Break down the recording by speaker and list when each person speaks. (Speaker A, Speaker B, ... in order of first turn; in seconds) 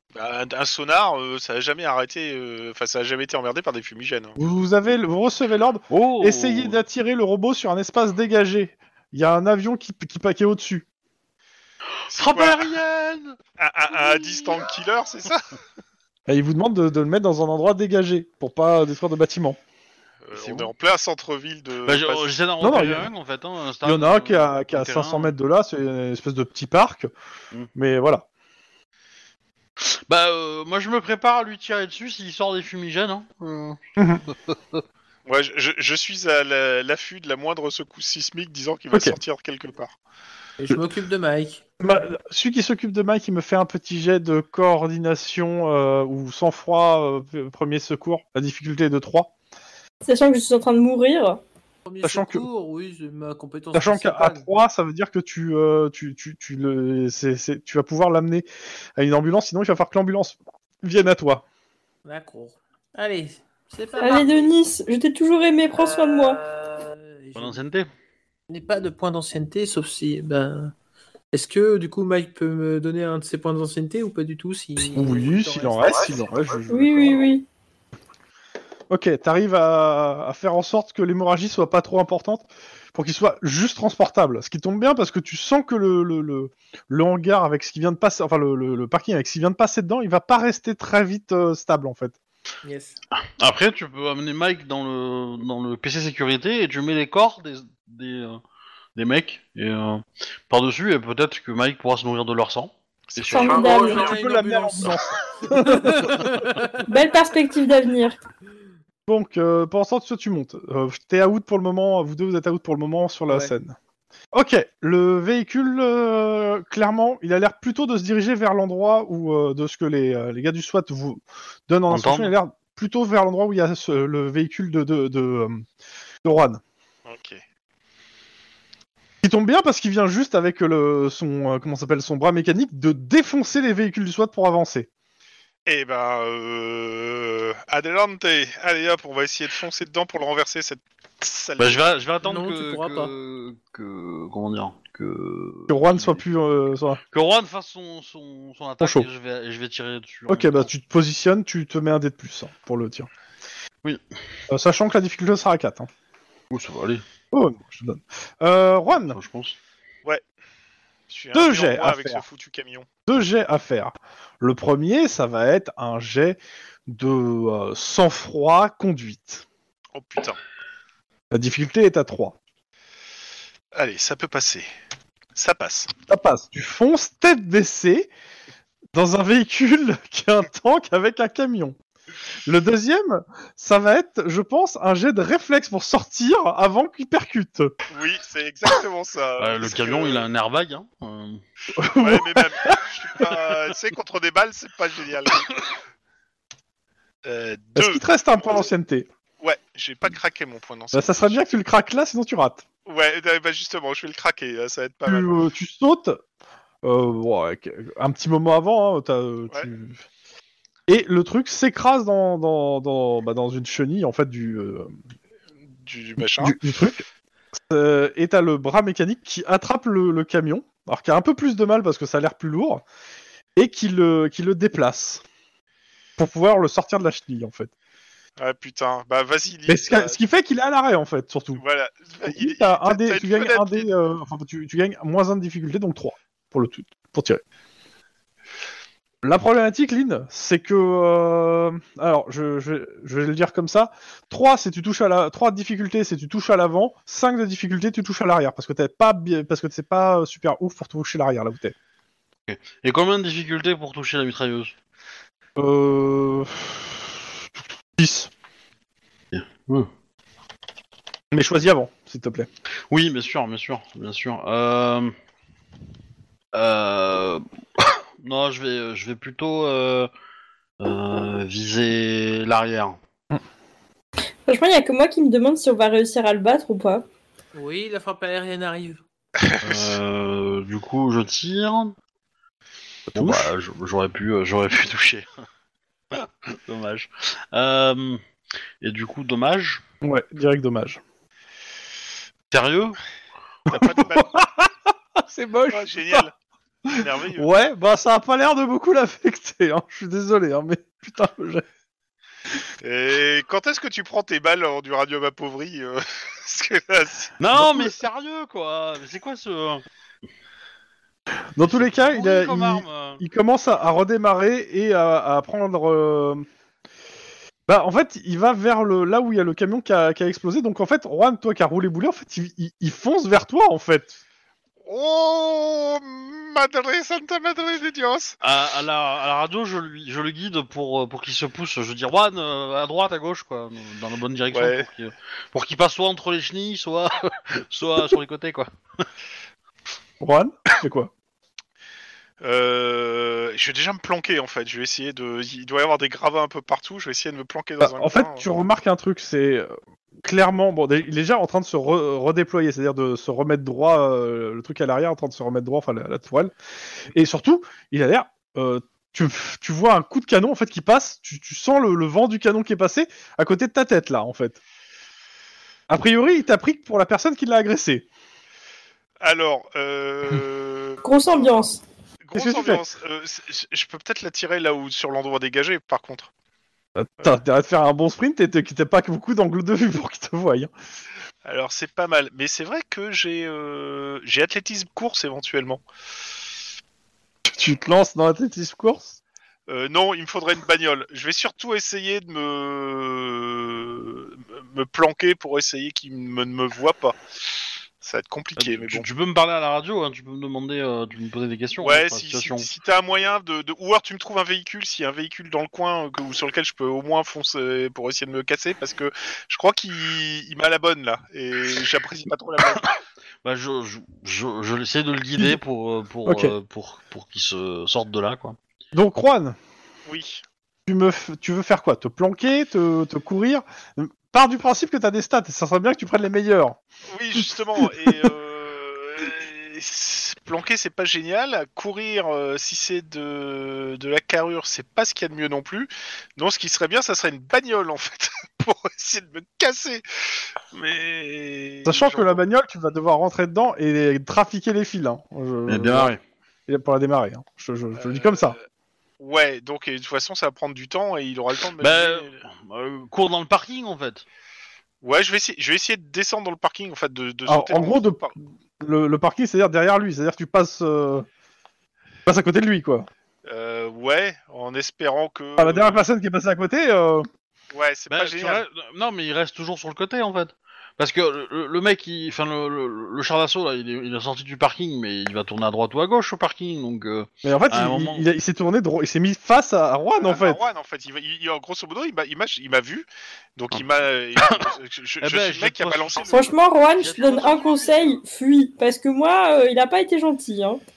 Speaker A: 0.1-4.4, 12.1-12.7, 13.6-15.5, 20.2-22.3, 35.2-39.9, 103.1-103.6, 127.0-127.4, 135.7-141.8, 161.1-162.9, 169.9-170.4, 173.7-174.7, 175.3-175.9, 187.9-190.3, 192.0-195.5, 197.2-198.0, 199.4-201.4, 202.8-205.4, 215.8-216.5, 228.4-230.2, 231.6-233.9, 279.4-280.0, 293.7-294.4, 295.7-296.3, 296.9-297.5, 302.8-307.4, 324.8-328.4, 334.5-334.9, 342.4-348.4, 369.2-371.6, 372.2-376.3, 381.4-385.8, 389.7-397.2, 398.0-399.1, 401.8-412.9, 420.1-420.4, 427.1-440.0, 440.7-442.4, 448.0-448.6, 449.2-452.3, 455.0-458.3, 463.4-466.0, 467.7-468.6, 480.2-486.6
Speaker B: 4.4-10.8, 16.3-19.6, 22.6-23.1, 23.8-27.1, 27.7-28.2, 34.0-34.2, 38.9-39.2, 41.8-49.3, 52.0-52.5, 53.7-58.5, 59.0-61.4, 74.9-77.2, 78.9-92.1, 103.8-106.3, 109.1-113.8, 114.3-125.6, 126.2-126.6, 129.2-134.9, 145.7-147.0, 148.8-149.1, 150.3-153.1, 154.5-155.9, 157.3-159.2, 161.3-162.2, 163.1-169.4, 171.3-172.3, 176.1-178.1, 178.9-181.8, 182.4-187.7, 191.7-193.2, 197.8-199.1, 200.9-202.6, 205.1-206.2, 206.8-210.0, 210.9-214.9, 216.2-217.0, 217.7-222.8, 223.6-225.2, 226.2-227.7, 229.7-231.6, 232.2-237.4, 239.2-251.7, 255.6-257.4, 258.0-258.3, 261.3-262.5, 283.1-283.5, 290.0-291.0, 293.7-296.2, 296.9-301.6, 307.5-307.9, 311.6-316.4, 317.7-324.2, 340.2-341.1, 347.8-356.5, 357.1-364.6, 365.9-368.1, 372.3-372.8, 376.9-380.7, 387.5-389.2, 416.2-416.5, 418.9-419.6, 420.9-426.8, 441.8-446.1, 446.7-448.6, 457.4-461.3, 462.2-463.1, 465.6-467.3, 477.4-480.6
Speaker C: 5.9-6.8, 12.1-13.4, 14.0-14.6, 20.3-20.7, 21.9-25.3, 29.8-33.8, 34.3-34.8, 67.3-67.9, 93.4-98.4, 98.9-103.8, 121.9-122.3, 141.6-146.2, 147.1-150.7, 156.5-157.0, 159.1-159.6, 189.4-191.4, 252.5-254.7, 259.3-259.9, 262.9-265.1, 266.5-270.1, 270.8-273.0, 279.6-281.9, 283.1-285.3, 286.1-288.2, 288.8-289.8, 292.5-293.0, 307.4-309.8, 311.6-313.2, 328.4-338.7, 398.6-402.7, 413.4-418.6, 445.7-446.2, 451.8-454.2, 468.1-478.2, 484.4-488.2
Speaker D: 40.6-41.6, 51.8-54.5, 62.0-64.5, 65.8-67.6, 68.5-70.7, 71.3-76.2, 92.6-93.0, 103.5-106.9, 142.2-143.1, 277.5-279.0
Speaker E: 50.0-51.4, 64.0-66.4, 76.7-77.5, 103.3-104.1, 106.8-108.2, 274.5-277.0, 371.0-371.8, 486.3-490.8